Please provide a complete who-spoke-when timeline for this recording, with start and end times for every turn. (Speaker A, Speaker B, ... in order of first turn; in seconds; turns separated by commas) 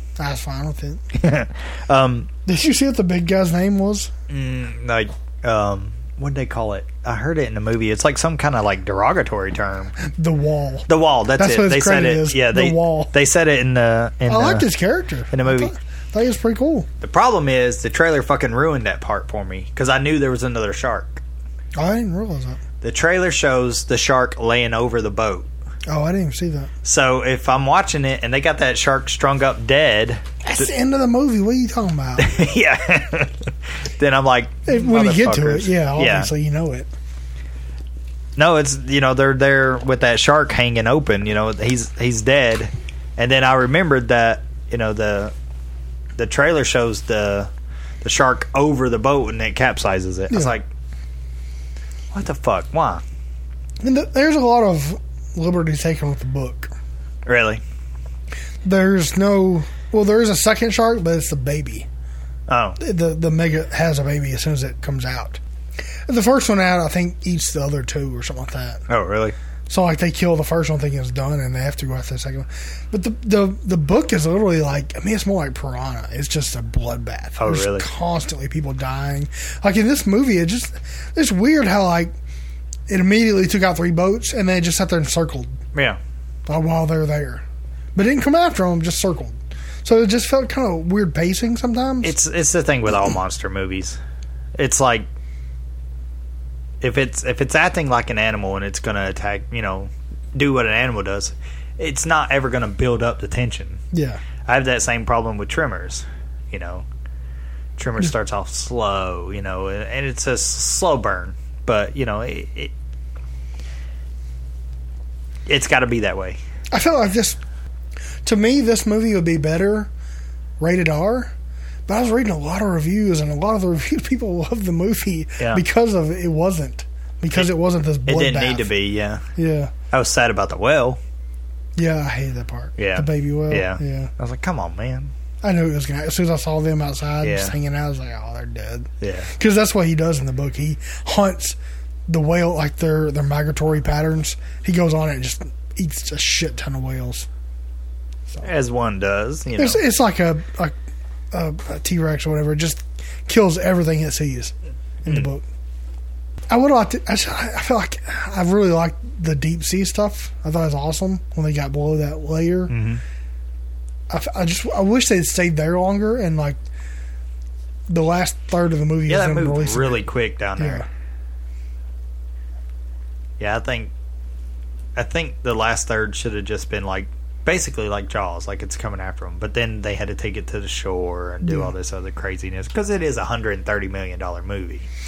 Speaker A: 0.2-1.0, Speaker B: 1.1-2.3, Speaker A: 2.5-4.1, Speaker B: 4.3-9.9, Speaker A: 10.0-13.1, Speaker B: 10.9-14.7, Speaker A: 14.3-16.9, Speaker B: 15.3-15.7, Speaker B: 17.0-21.2, Speaker A: 21.8-22.6, Speaker B: 22.8-25.5, Speaker A: 25.9-26.7, Speaker B: 26.8-30.7, Speaker A: 30.4-32.3, Speaker B: 32.2-36.3, Speaker A: 34.6-36.9, Speaker B: 38.4-45.3, Speaker B: 46.1-47.5, Speaker B: 48.0-50.7, Speaker A: 50.3-50.5, Speaker B: 52.1-53.0, Speaker A: 53.8-56.7, Speaker B: 57.2-57.6, Speaker A: 58.6-61.9, Speaker B: 62.5-62.8, Speaker A: 62.8-65.4, Speaker A: 66.1-68.8, Speaker B: 68.9-69.3, Speaker A: 69.7-82.1, Speaker B: 77.4-77.9, Speaker A: 82.9-85.5, Speaker B: 85.7-86.0, Speaker A: 86.5-87.4, Speaker A: 88.0-92.2, Speaker B: 92.0-94.0, Speaker B: 94.5-95.1, Speaker B: 96.8-103.8, Speaker A: 103.9-104.2, Speaker B: 104.4-106.8, Speaker B: 107.8-112.7, Speaker B: 115.5-116.4, Speaker A: 116.7-117.4, Speaker A: 118.2-119.9, Speaker A: 120.6-121.3, Speaker A: 121.9-128.7, Speaker B: 128.1-129.2, Speaker A: 129.3-129.7, Speaker B: 129.9-131.0, Speaker A: 131.8-134.1, Speaker B: 132.8-135.1, Speaker A: 135.4-141.6, Speaker B: 137.2-137.5, Speaker B: 139.0-139.3, Speaker A: 142.1-147.3, Speaker B: 148.4-149.8, Speaker A: 149.6-150.7, Speaker A: 151.3-154.5, Speaker A: 155.0-155.4, Speaker A: 156.5-162.7, Speaker B: 162.7-163.0, Speaker A: 164.1-166.6, Speaker A: 167.9-170.8, Speaker B: 169.1-170.8, Speaker B: 173.4-173.9, Speaker B: 174.9-184.9, Speaker A: 181.4-181.7